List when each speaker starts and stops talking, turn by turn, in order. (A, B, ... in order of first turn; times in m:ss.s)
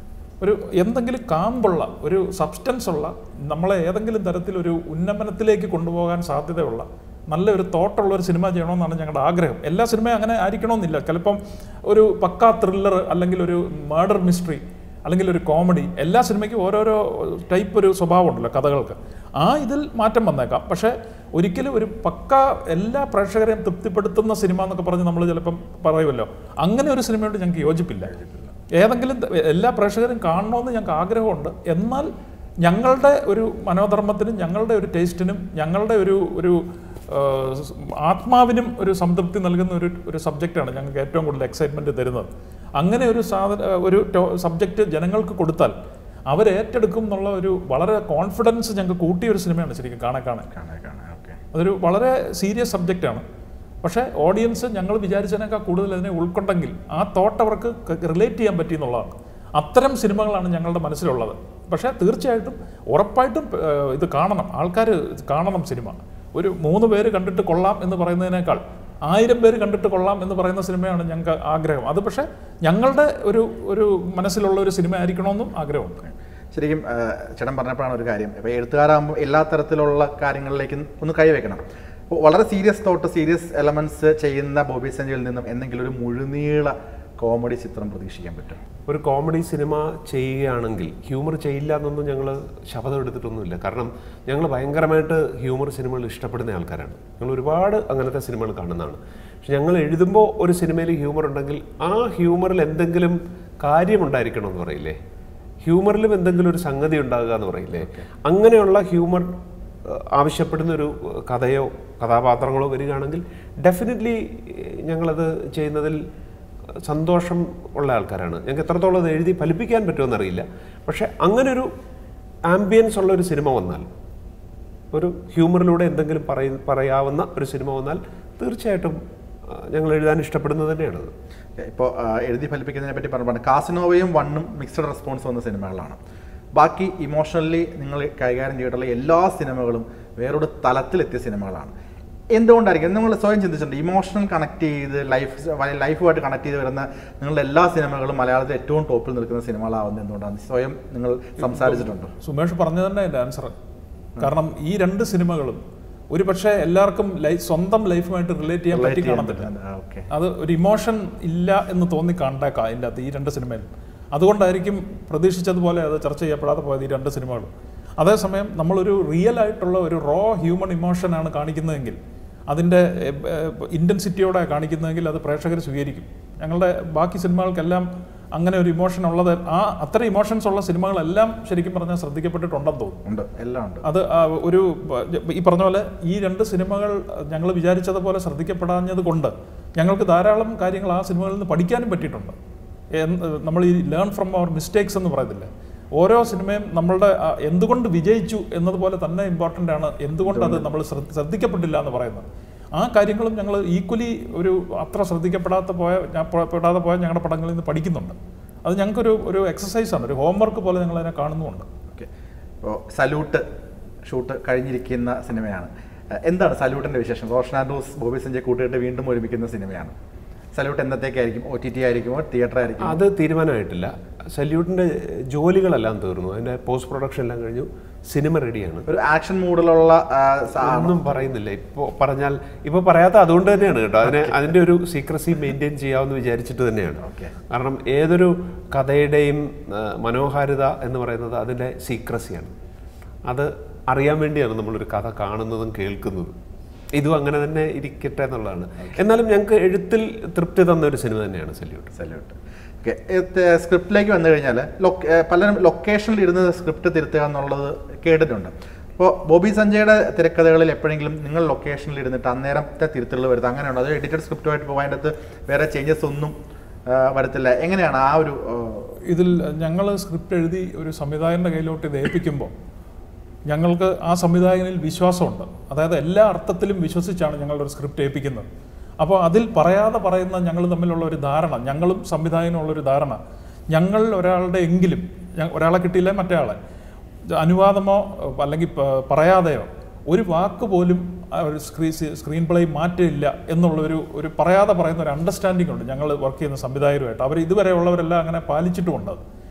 0:00.4-0:28.1 A
0:28.2-0:28.5 B
0:28.8-0:32.1 A
0:32.6-0:45.7 A
0:46.3-0:50.5 A
0:50.5-0:51.4 B
0:51.5-0:53.2 A
0:53.8-1:16.0 A
1:16.5-1:28.6 B
1:28.9-1:45.0 C
1:45.6-1:56.0 C
1:56.8-2:01.7 C
2:02.5-2:03.9 C
2:04.9-2:11.1 C
2:11.6-2:16.0 B
2:16.6-2:21.7 B
2:22.3-2:32.1 B
2:31.4-2:33.5 A
2:34.2-2:35.6 A
2:36.1-2:39.5 A
2:38.7-2:40.1 B
2:40.1-3:03.0 A
3:03.1-3:03.8 B
3:03.8-3:12.4 A
3:12.9-3:22.2 A
3:20.3-3:20.7 B
3:22.8-3:31.7 A
3:32.6-3:33.4 B
3:34.1-3:39.9 B
3:40.5-3:43.0 B
3:42.8-3:48.9 C
3:48.9-3:51.3 B
3:50.6-4:02.6 C
3:57.0-3:57.3 B
4:03.3-4:06.4 C
4:07.0-4:11.9 C
4:11.9-4:26.3 B
4:26.9-4:29.0 B
4:29.1-4:32.5 A
4:33.5-4:38.5 A
4:39.0-4:43.2 A
4:43.7-4:46.6 A
4:47.4-4:59.2 A